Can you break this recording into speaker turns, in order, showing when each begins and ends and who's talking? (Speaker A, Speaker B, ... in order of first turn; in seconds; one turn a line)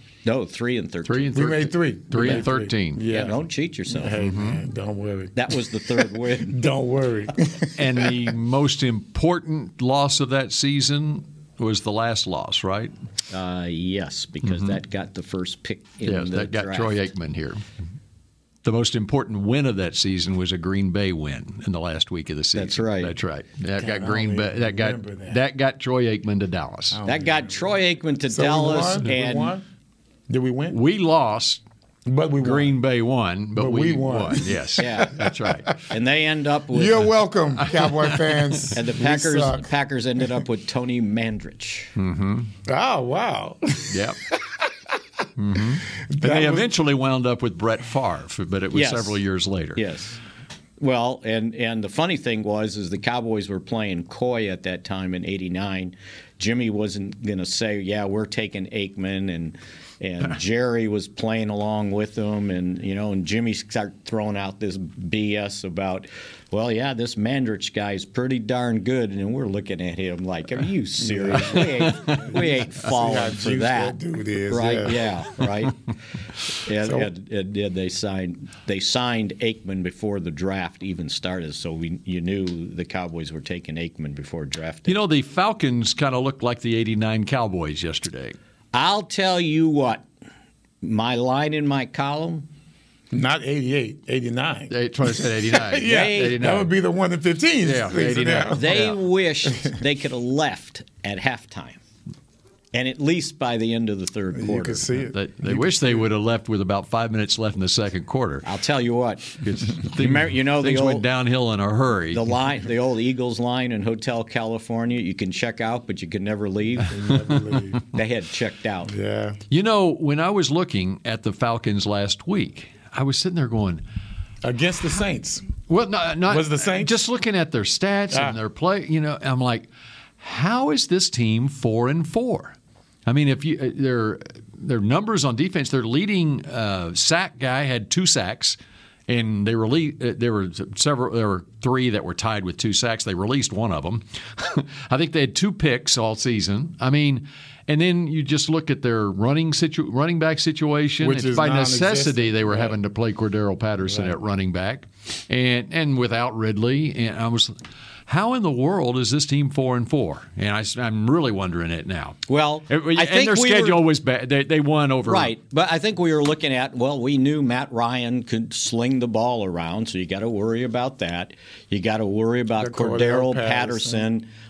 Speaker A: 0.2-1.4
Speaker B: 1.1-3.0
Speaker C: 1.3-8.3
Speaker A: 3.1-4.2
Speaker B: 4.2-4.6
Speaker A: 5.3-6.7
Speaker B: 7.8-12.9
Speaker A: 13.3-17.0
Speaker B: 14.4-14.7
Speaker B: 16.0-17.6
Speaker B: 18.6-27.0
Speaker A: 22.5-23.1
Speaker C: 23.8-25.4
Speaker C: 26.9-27.6
Speaker A: 27.1-29.6
Speaker C: 28.3-29.6
Speaker C: 30.3-30.8
Speaker B: 30.7-31.6
Speaker C: 32.0-32.8
Speaker B: 32.4-35.8
Speaker C: 33.5-35.8
Speaker A: 34.8-35.1
Speaker A: 35.9-37.1
Speaker C: 36.7-39.7
Speaker B: 37.6-38.6
Speaker A: 38.7-41.9
Speaker B: 42.0-42.5
Speaker C: 42.6-44.6
Speaker B: 43.9-44.2
Speaker B: 45.4-49.8
Speaker C: 46.0-46.7
Speaker A: 48.7-49.2
Speaker A: 49.8-50.2
Speaker A: 50.8-74.0
Speaker C: 71.0-75.1
Speaker A: 74.5-75.8
Speaker A: 76.6-85.0
Speaker C: 76.8-77.1
Speaker B: 84.9-88.4
Speaker A: 88.7-90.1
Speaker A: 90.8-92.5
Speaker C: 93.1-98.8
Speaker B: 94.7-96.7
Speaker A: 95.9-96.3
Speaker B: 97.6-99.0
Speaker A: 98.5-101.8
Speaker A: 102.7-104.9
Speaker C: 104.3-106.1
Speaker B: 105.1-108.5
Speaker A: 108.4-111.0
Speaker B: 109.4-112.4
Speaker A: 112.1-116.9
Speaker C: 116.9-117.8
Speaker A: 117.9-118.9
Speaker C: 118.9-119.4
Speaker B: 119.5-123.8
Speaker C: 124.4-125.5
Speaker B: 125.6-129.7
Speaker C: 126.2-127.0
Speaker C: 128.1-128.4
Speaker B: 130.2-132.5
Speaker B: 133.1-138.6
Speaker B: 139.1-157.5
Speaker C: 151.0-152.8
Speaker C: 153.8-154.2
Speaker B: 158.1-165.3
Speaker A: 162.3-163.8
Speaker A: 165.1-174.3
Speaker C: 172.6-174.1